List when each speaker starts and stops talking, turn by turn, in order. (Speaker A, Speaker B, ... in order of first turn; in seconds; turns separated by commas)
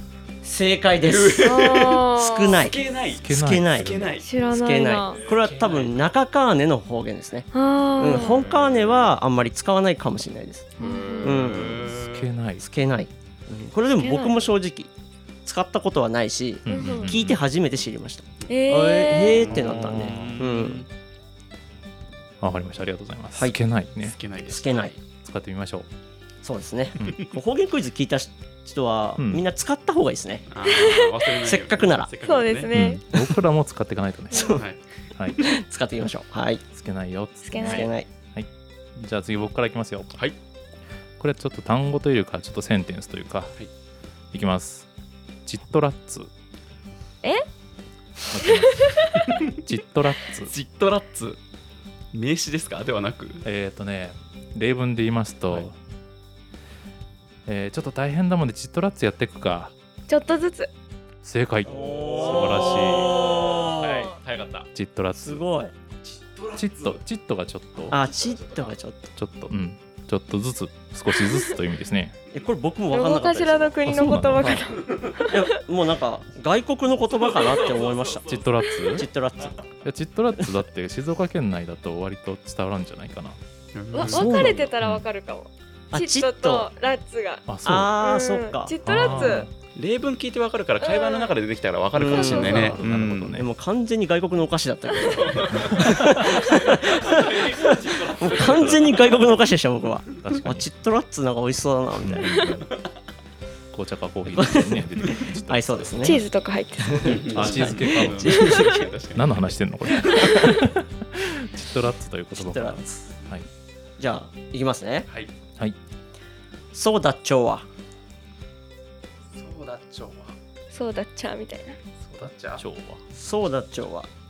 Speaker A: 0.4-1.6, Speaker B: 1.0-4.3, Speaker C: 1.4-2.6, Speaker A: 2.1-2.8, Speaker D: 3.1-4.2, Speaker A: 3.3-10.7, Speaker C: 4.2-5.2, Speaker B: 5.2-6.0, Speaker C: 7.5-8.4, Speaker B: 8.1-9.1, Speaker C: 10.8-11.4, Speaker B: 10.8-12.3, Speaker A: 11.2-11.9, Speaker D: 11.6-12.6, Speaker A: 12.6-14.9, Speaker C: 14.0-14.3, Speaker A: 15.4-20.9, Speaker D: 16.6-17.4, Speaker C: 16.7-17.1, Speaker C: 18.5-19.6, Speaker B: 19.3-20.9, Speaker D: 19.6-20.4, Speaker D: 22.4-24.2, Speaker B: 24.0-25.0, Speaker A: 24.5-24.9, Speaker D: 25.2-25.9, Speaker A: 26.4-30.4, Speaker D: 27.0-27.2, Speaker D: 29.2-29.4, Speaker B: 30.5-32.7, Speaker C: 30.6-31.1, Speaker A: 31.4-32.1, Speaker C: 32.2-33.0, Speaker D: 32.7-34.6, Speaker A: 34.3-34.6, Speaker A: 35.4-36.6, Speaker D: 36.7-40.2, Speaker C: 37.5-37.9, Speaker A: 37.6-38.1, Speaker D: 41.2-43.6, Speaker D: 44.3-44.9, Speaker D: 45.5-46.3, Speaker D: 48.3-50.5, Speaker C: 48.5-49.2, Speaker B: 49.3-49.6, Speaker B: 50.5-51.4, Speaker B: 52.1-53.5, Speaker D: 53.4-55.8, Speaker D: 57.5-59.7, Speaker C: 60.1-60.7, Speaker D: 61.2-63.2, Speaker B: 61.6-64.7, Speaker A: 61.7-64.1, Speaker C: 63.2-64.2, Speaker D: 64.7-65.4, Speaker A: 65.2-65.7, Speaker B: 66.1-67.0, Speaker D: 66.6-68.0, Speaker A: 67.9-69.1, Speaker B: 67.9-68.6, Speaker D: 69.2-72.2, Speaker A: 72.3-73.8, Speaker C: 72.9-75.5, Speaker D: 73.8-74.7, Speaker A: 75.2-78.3, Speaker B: 77.4-78.9, Speaker D: 78.3-79.1, Speaker A: 78.9-79.6, Speaker D: 79.8-83.4, Speaker B: 83.8-84.6, Speaker C: 83.9-89.5, Speaker A: 84.0-84.7, Speaker D: 84.1-85.0, Speaker A: 85.9-86.7, Speaker D: 87.5-88.0, Speaker A: 87.7-88.8, Speaker D: 88.8-89.5, Speaker B: 88.9-93.4, Speaker C: 90.8-91.3, Speaker A: 92.0-92.8, Speaker C: 92.1-92.7, Speaker D: 92.3-93.5, Speaker A: 93.3-102.3, Speaker C: 95.0-95.4, Speaker B: 95.0-99.3, Speaker D: 95.5-96.3, Speaker D: 98.3-99.1, Speaker D: 100.2-100.7, Speaker D: 102.0-102.7, Speaker D: 103.7-106.2, Speaker A: 104.3-106.2, Speaker C: 106.0-108.8, Speaker A: 106.8-108.8, Speaker B: 107.0-109.4, Speaker D: 107.3-108.5, Speaker D: 109.1-113.5, Speaker A: 110.1-110.4, Speaker C: 110.1-110.5, Speaker A: 112.3-113.1, Speaker A: 114.0-115.1, Speaker A: 116.7-117.7, Speaker B: 119.3-120.4, Speaker C: 120.7-121.8, Speaker B: 122.0-122.6, Speaker D: 122.6-123.0, Speaker A: 123.1-124.1